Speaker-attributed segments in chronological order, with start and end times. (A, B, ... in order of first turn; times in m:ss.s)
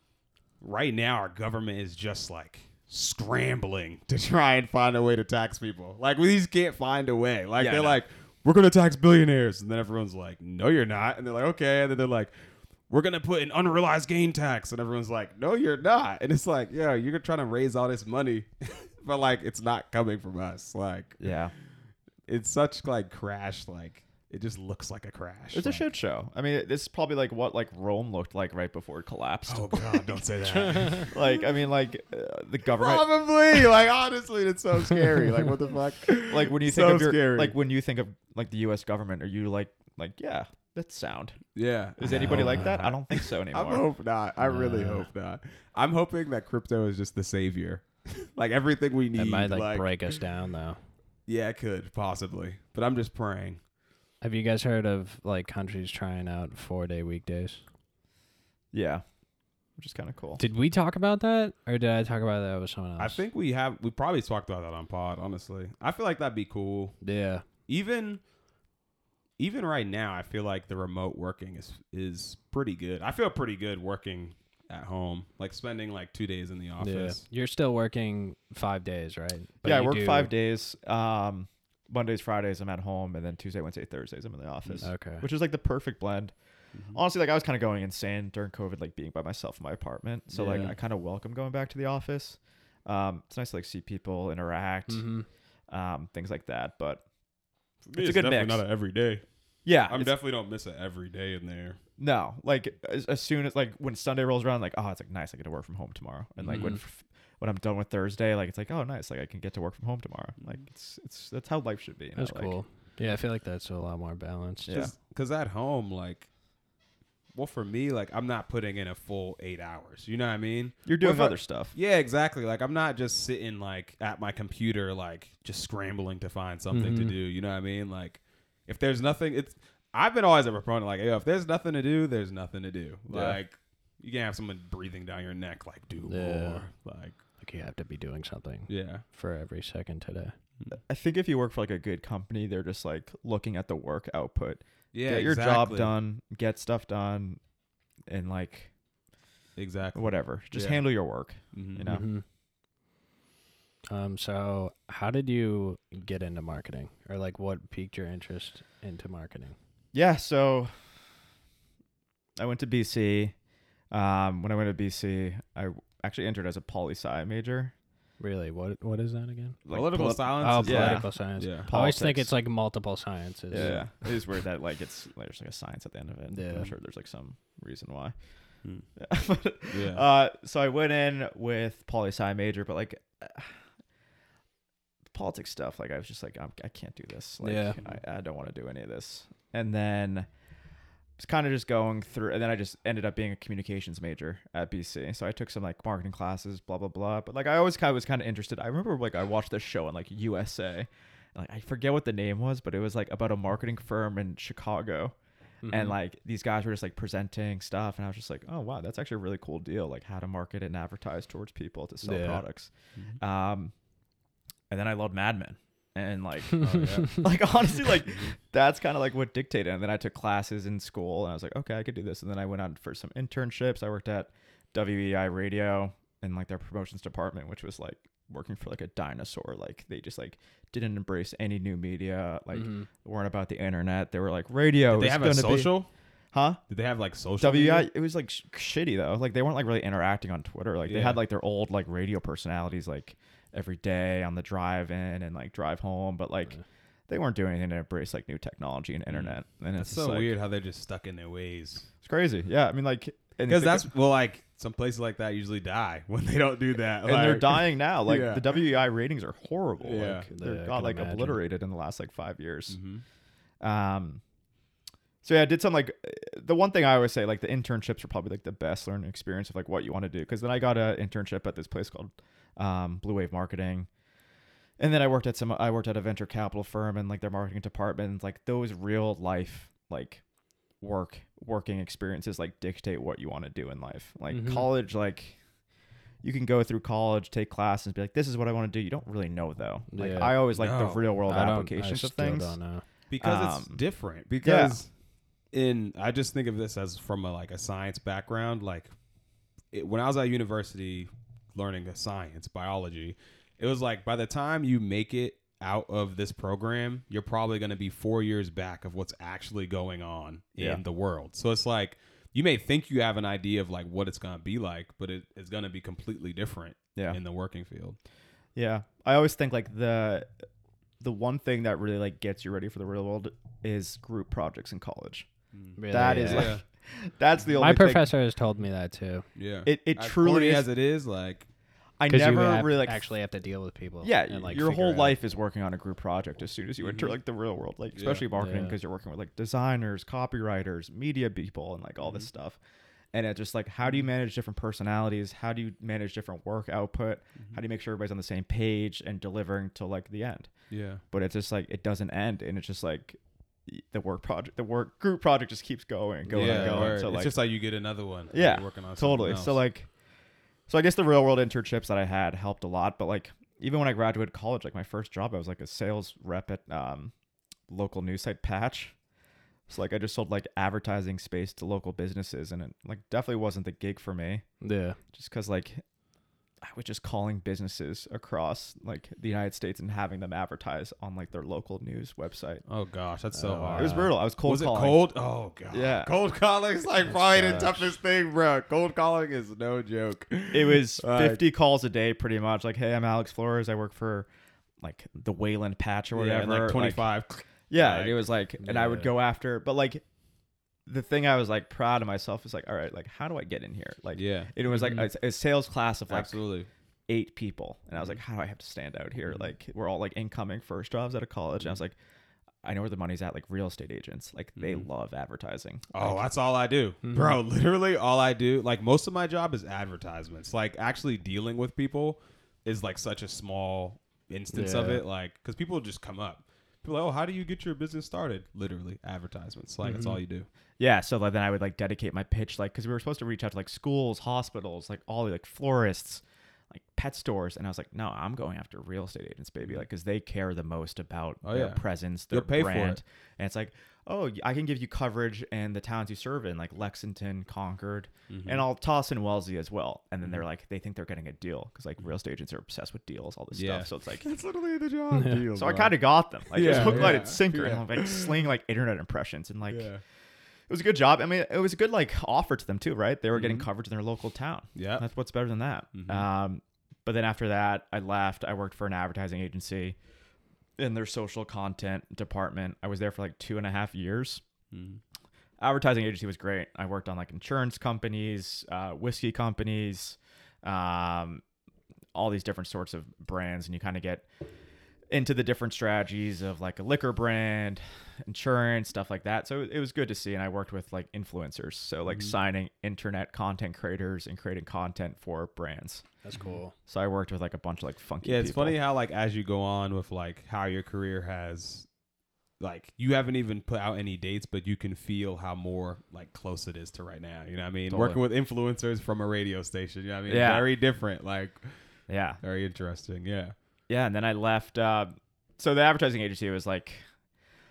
0:00.6-0:12.3 A
0:07.6-0:08.0 B
0:12.9-0:21.2 A
0:21.2-0:21.5 B
0:22.3-0:25.9 A
0:25.5-0:33.0 B
0:29.5-0:31.3 A
0:30.6-0:31.1 C
0:32.7-0:37.6 A
0:36.2-0:41.4 B
0:41.5-0:50.2 A
0:42.0-0:43.8 B
0:42.0-0:42.8 C
0:44.4-0:45.1 C
0:49.1-0:50.8 C
0:51.3-0:53.6 A
0:54.2-0:57.6 C
0:58.7-0:59.0 B
0:59.8-1:00.4 B
1:00.4-1:03.2 C
1:03.0-1:07.0 A
1:07.0-1:07.4 C
1:07.7-1:08.2 A
1:09.4-1:17.2 A
1:16.8-1:20.3 C
1:19.6-1:26.3 B
1:24.8-1:25.2 C
1:26.9-1:35.0 B
1:30.3-1:30.7 A
1:30.4-1:30.7 C
1:34.9-1:35.2 C
1:35.7-1:37.0 B
1:37.8-1:39.2 A
1:37.9-1:38.6 B
1:39.6-1:40.1 B
1:39.9-1:41.8 A
1:42.0-1:52.6 B
1:46.4-1:46.8 A
1:46.5-1:46.8 C
1:52.2-1:54.7 C
1:54.6-1:54.9 B
1:54.7-1:56.3 A
1:57.3-2:17.2 A
2:00.9-2:01.8 B
2:06.7-2:07.2 C
2:16.0-2:16.7 C
2:17.4-2:20.3 C
2:18.7-2:19.0 A
2:20.7-2:27.4 B
2:24.9-2:25.9 A
2:28.1-2:28.7 B
2:29.6-2:30.9 A
2:29.9-2:32.1 B
2:31.5-2:31.9 A
2:31.9-2:32.2 C
2:33.9-2:39.6 C
2:39.9-2:40.7 B
2:42.4-2:43.3 B
2:43.9-2:47.7 B
2:48.2-2:49.6 C
2:49.6-2:52.3 B
2:49.7-2:51.7 A
2:50.4-2:53.9 C
2:53.5-2:58.1 B
2:53.5-2:53.9 A
2:56.3-2:56.7 C
2:59.0-3:03.6 B
2:59.7-3:00.0 A
3:05.1-3:10.3 B
3:07.4-3:07.8 C
3:11.2-3:25.1 B
3:25.6-3:26.0 C
3:25.7-3:33.7 B
3:32.0-3:32.4 C
3:34.7-3:55.8 B
3:36.6-3:37.2 A
3:36.6-3:37.2 C
3:52.5-3:52.9 C
3:54.9-3:55.9 A
3:56.3-3:56.6 B
3:56.7-3:57.9 A
3:57.4-4:06.5 B
4:00.9-4:01.2 A
4:07.1-4:10.3 B
4:09.1-4:11.9 A
4:12.0-4:13.9 B
4:13.5-4:18.5 A
4:17.0-4:22.8 B
4:19.8-4:20.3 A
4:20.3-4:21.4 C
4:22.7-4:23.0 A
4:23.6-4:24.2 B
4:25.2-4:33.9 B
4:34.8-4:40.2 B
4:40.8-4:45.4 B
4:44.3-4:44.7 C
4:46.2-4:52.6 B
4:49.9-4:50.4 C
4:50.5-4:51.1 A
4:51.3-4:52.8 C
4:53.1-4:54.9 A
4:53.2-4:53.8 B
4:54.4-4:54.8 B
4:55.5-4:58.9 A
4:59.7-5:18.0 A
5:18.6-5:20.3 B
5:21.0-5:25.3 B
5:25.5-5:26.6 A
5:25.8-5:26.6 C
5:25.9-5:28.1 B
5:27.6-5:29.2 C
5:29.4-5:31.5 A
5:29.6-5:30.7 B
5:32.0-5:33.0 B
5:32.1-5:35.2 C
5:34.0-5:42.6 B
5:36.8-5:37.1 A
5:38.0-5:38.2 A
5:38.3-5:38.8 C
5:42.0-5:42.3 A
5:43.1-5:50.5 B
5:50.7-5:51.0 A
5:51.1-5:57.3 B
5:56.3-5:57.0 C
5:56.3-5:59.6 A
5:58.3-5:59.9 B
6:00.7-6:07.1 B
6:07.7-6:09.0 B
6:09.7-6:14.4 B
6:14.6-6:15.0 C
6:15.1-6:15.8 B
6:16.6-6:22.6 B
6:22.6-6:31.4 A
6:23.3-6:24.1 C
6:23.8-6:25.0 B
6:25.7-6:26.1 B
6:27.1-6:27.9 C
6:30.5-6:34.3 B
6:34.8-6:37.1 B
6:36.1-6:38.2 A
6:37.7-6:40.0 B
6:38.6-6:39.1 C
6:40.9-6:46.4 B
6:44.1-6:44.5 A
6:44.7-6:45.1 C
6:46.1-6:46.7 A
6:47.1-6:52.0 B
6:52.6-6:56.2 B
6:54.6-6:54.9 A
6:55.9-7:10.5 A
6:57.0-6:57.4 C
7:04.5-7:05.0 C
7:09.8-7:10.2 C
7:10.8-7:34.3 B
7:21.4-7:23.0 A
7:28.3-7:28.7 A
7:33.5-7:38.4 A
7:35.1-7:35.5 C
7:35.5-7:39.9 B
7:36.6-7:37.3 C
7:39.7-7:40.0 A
7:40.7-7:50.0 B
7:43.3-7:43.7 A
7:44.8-7:45.0 A
7:45.9-7:46.2 A
7:50.8-7:54.4 B
7:54.7-7:55.0 A
7:55.6-8:01.4 B
8:02.1-8:04.3 B
8:05.1-8:16.0 B
8:16.2-8:16.7 C
8:16.3-8:16.6 A
8:16.9-8:18.8 B
8:18.2-8:21.9 A
8:22.6-8:31.8 A
8:27.9-8:28.2 B
8:30.3-8:30.7 B
8:32.1-8:32.4 B
8:32.4-8:33.5 A
8:33.9-8:37.0 B